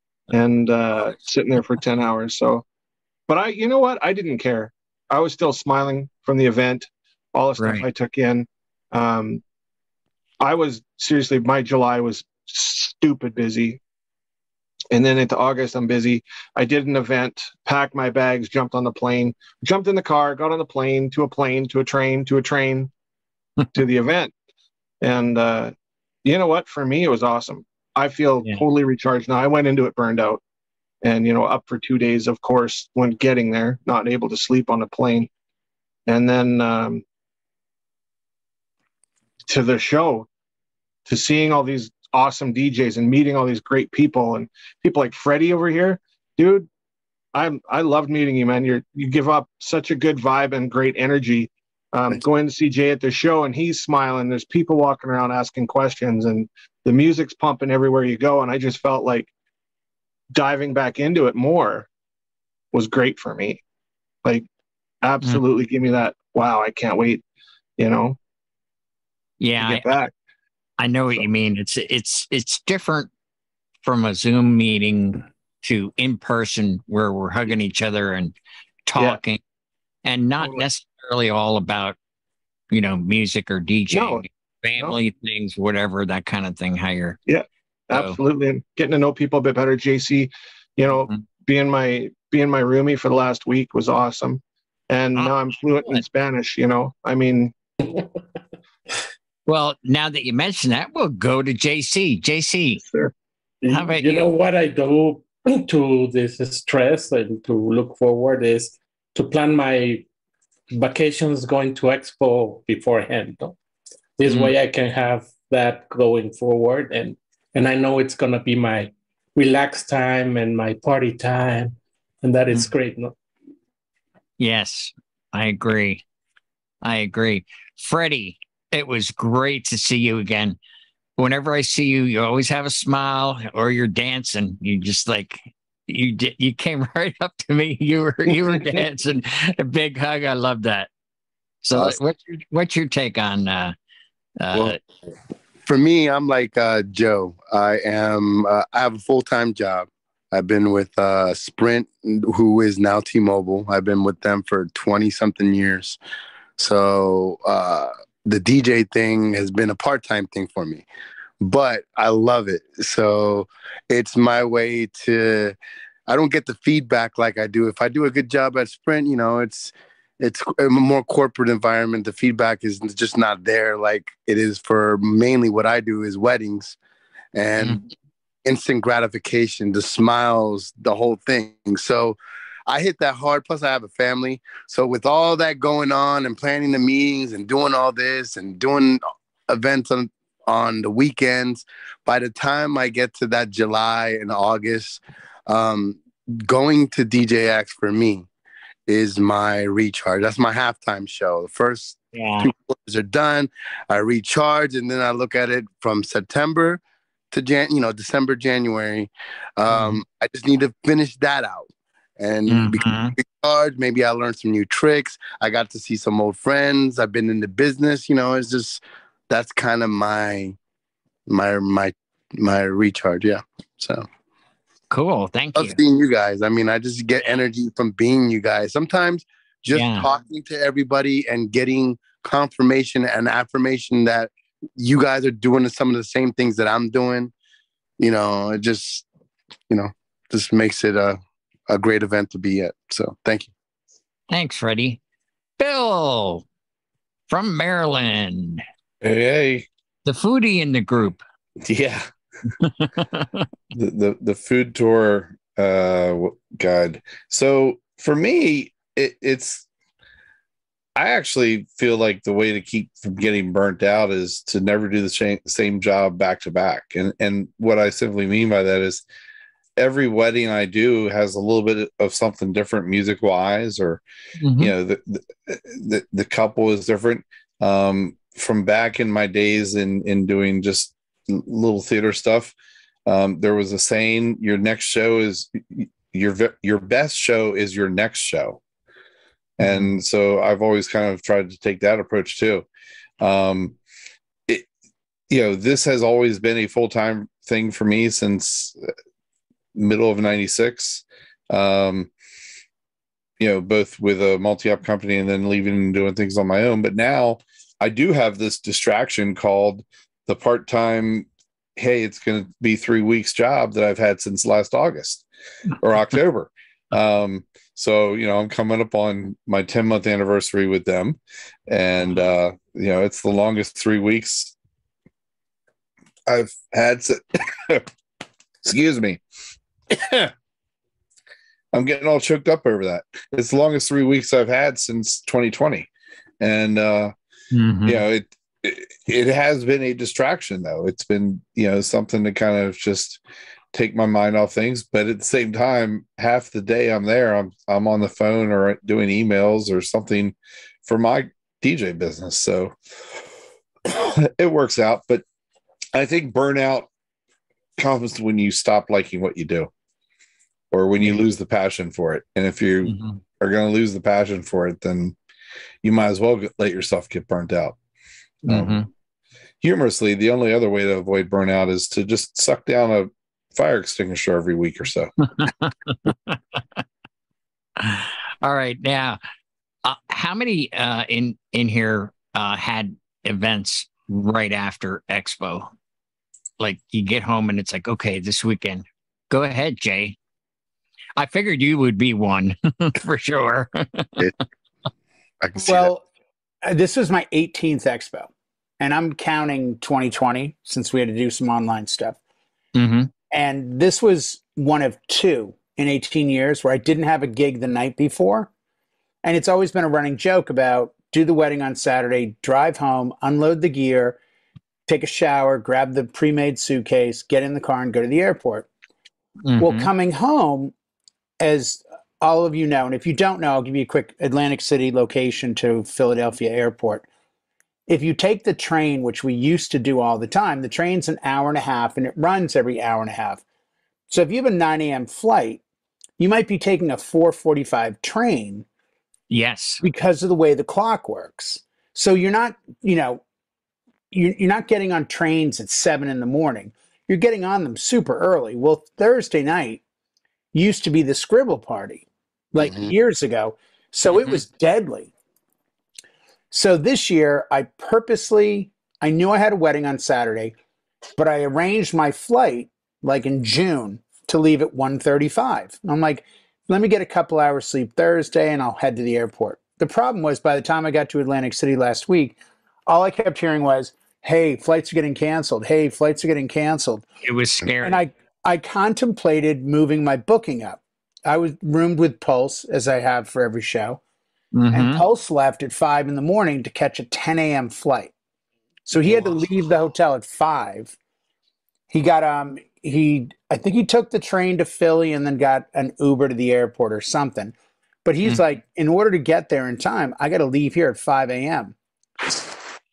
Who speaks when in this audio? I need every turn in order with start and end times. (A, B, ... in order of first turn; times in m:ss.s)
0:00.3-0:02.6 A
0:03.3-0:09.4 A
0:07.6-0:07.9 B
0:10.4-0:13.8 A
0:14.9-0:22.9 A
0:23.7-0:24.3 A
0:25.0-0:25.7 A
0:26.2-0:30.4 A
0:31.0-0:35.3 A
0:36.1-0:37.0 A
0:39.5-0:40.3 A
0:41.1-0:46.7 A
0:47.3-0:59.3 A
1:00.3-1:01.9 A
1:02.7-1:03.6 A
1:05.0-1:07.2 A
1:07.8-1:08.2 A
1:09.4-1:09.9 B
1:09.6-1:10.1 A
1:10.8-1:13.1 B
1:13.8-1:18.4 B
1:18.9-1:19.4 B
1:20.0-1:22.0 B
1:22.7-1:27.2 B
1:23.9-1:24.2 A
1:27.3-1:37.5 A
1:27.9-1:28.2 B
1:30.9-1:31.2 B
1:35.1-1:36.0 B
1:39.5-1:42.8 B
1:42.8-1:43.1 A
1:43.6-1:50.1 C
1:43.7-1:44.3 B
1:50.7-1:53.6 C
1:54.2-2:03.1 C
1:54.2-1:54.5 B
2:04.4-2:06.0 B
2:06.8-2:10.6 B
2:11.2-2:20.9 B
2:18.3-2:18.6 D
2:21.6-2:23.8 B
2:24.4-2:24.8 B
2:25.6-2:36.0 D
2:36.6-2:40.9 D
2:41.4-2:45.6 D
2:46.1-2:56.8 D
2:57.3-2:57.8 D
2:58.5-3:02.2 D
3:02.7-3:18.3 D
3:18.9-3:26.8 D
3:22.1-3:22.5 B
3:27.3-3:40.6 D
3:29.7-3:30.0 B
3:32.5-3:33.2 B
3:41.3-3:44.1 D
3:44.9-3:45.8 B
3:45.6-3:57.3 D
3:49.7-3:50.1 B
3:58.0-3:59.0 D
3:59.7-4:03.5 D
4:04.3-4:05.0 B
4:05.6-4:06.5 B
4:07.3-4:08.6 B
4:09.0-4:09.6 E
4:10.0-4:11.2 B
4:11.6-4:12.1 E
4:12.6-4:13.4 B
4:13.7-4:19.6 E
4:21.0-4:29.0 E
4:29.8-4:34.0 E
4:34.4-4:34.7 B
4:34.6-4:42.5 E
4:43.1-4:48.6 E
4:49.6-4:52.7 E
4:49.6-4:49.9 B
4:53.2-4:53.8 E
4:55.3-4:58.8 E
4:59.8-5:02.1 E
5:03.4-5:15.2 E
5:15.8-5:24.5 E
5:26.3-5:27.9 E
5:28.6-5:29.2 E
5:29.9-5:30.3 E
5:31.7-5:37.1 E
5:37.5-5:38.0 B
5:37.9-5:43.2 E
5:43.7-5:52.8 E
5:53.9-5:55.2 E
5:56.0-5:56.9 E
5:57.8-5:59.7 E
6:00.7-6:05.2 E
6:02.8-6:03.2 B
6:05.8-6:07.8 E
6:08.5-6:08.8 E
6:08.5-6:08.9 B
6:09.6-6:15.1 E
6:15.4-6:16.8 B
6:17.8-6:19.2 B
6:19.8-6:25.7 B
6:26.6-6:30.2 B
6:31.2-6:34.2 B
6:35.4-6:35.9 D
6:35.6-6:36.0 F
6:36.6-6:42.2 F
6:42.8-6:43.1 B
6:43.3-6:48.5 F
6:49.2-6:54.2 F
6:54.9-6:58.7 F
6:59.5-6:59.9 B
6:59.6-7:00.7 F
7:01.4-7:07.1 F
7:07.9-7:13.4 F
7:14.1-7:15.6 F
7:16.2-7:18.6 F
7:19.3-7:19.8 B
7:19.8-7:23.2 F
7:24.1-7:29.8 F
7:30.5-7:35.1 F
7:32.6-7:32.9 D
7:34.1-7:34.4 B
7:36.5-7:40.5 F
7:41.2-7:57.0 F
7:57.2-7:58.0 B
7:57.8-8:04.0 F
8:04.5-8:05.0 B
8:04.7-8:08.1 F
8:08.9-8:10.9 F
8:09.0-8:09.4 B
8:11.9-8:21.8 F